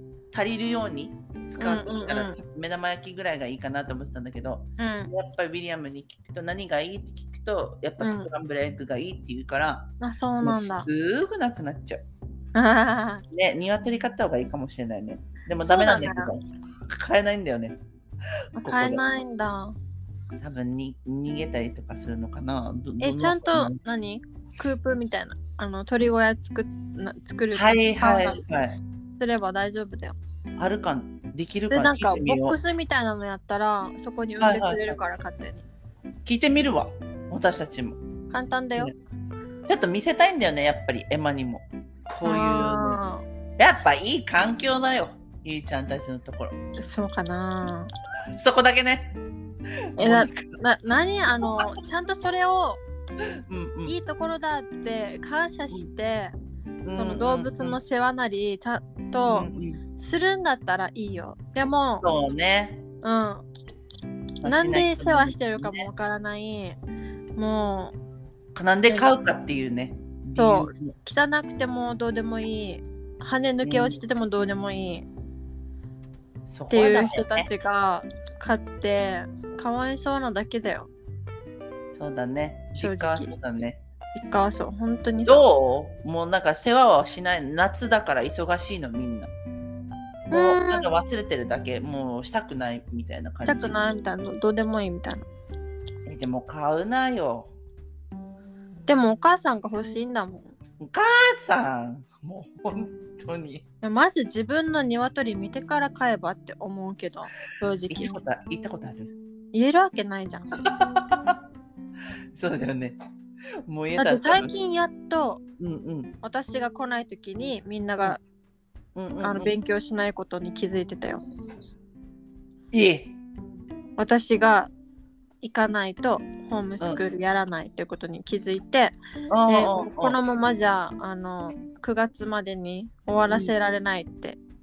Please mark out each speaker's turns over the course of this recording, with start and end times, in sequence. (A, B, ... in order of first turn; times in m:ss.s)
0:00.3-0:12.0 A
0:01.6-0:02.4 B
0:04.8-0:05.1 B
0:08.0-0:08.3 B
0:10.0-0:10.9 B
0:12.5-0:13.2 B
0:13.3-0:17.8 A
0:15.6-0:16.3 B
0:18.6-0:19.7 B
0:18.6-0:19.0 A
0:20.4-0:23.8 A
0:23.0-0:28.4 B
0:27.5-0:28.8 A
0:29.2-0:30.2 B
0:30.6-0:32.6 A
0:31.7-0:35.6 B
0:34.4-0:35.0 A
0:36.2-0:38.0 A
0:38.3-0:38.9 B
0:39.7-0:43.0 A
0:42.2-0:43.2 B
0:43.6-0:46.6 A
0:46.8-0:47.9 B
0:48.3-0:49.1 A
0:49.9-0:50.6 A
0:50.0-0:52.8 B
0:53.5-0:53.9 A
0:53.8-0:56.3 B
0:56.8-0:57.8 A
0:56.9-1:02.1 B
0:59.3-0:59.8 A
1:02.0-1:02.8 A
1:03.0-1:03.4 B
1:04.4-1:05.9 A
1:04.4-1:06.8 B
1:07.4-1:07.9 B
1:08.5-1:10.9 A
1:10.4-1:15.0 B
1:13.6-1:14.0 A
1:16.5-1:17.5 A
1:16.7-1:20.9 B
1:21.9-1:23.8 A
1:22.8-1:23.3 B
1:24.1-1:25.4 B
1:25.2-1:29.3 A
1:30.3-1:30.9 B
1:30.3-1:33.8 A
1:33.4-1:35.2 B
1:36.0-1:37.5 A
1:38.9-1:40.5 B
1:40.8-1:43.6 A
1:43.8-1:48.2 B
1:47.9-1:49.1 A
1:49.5-1:50.5 B
1:50.6-1:51.4 A
1:52.3-1:53.0 A
1:53.6-1:54.5 A
1:53.9-1:55.4 B
1:55.6-1:56.1 A
1:56.2-1:58.2 B
1:59.0-1:59.5 A
1:59.2-2:01.2 B
2:02.7-2:03.1 A
2:04.0-2:04.7 B
2:05.4-2:08.9 B
2:09.3-2:10.2 A
2:09.5-2:14.4 B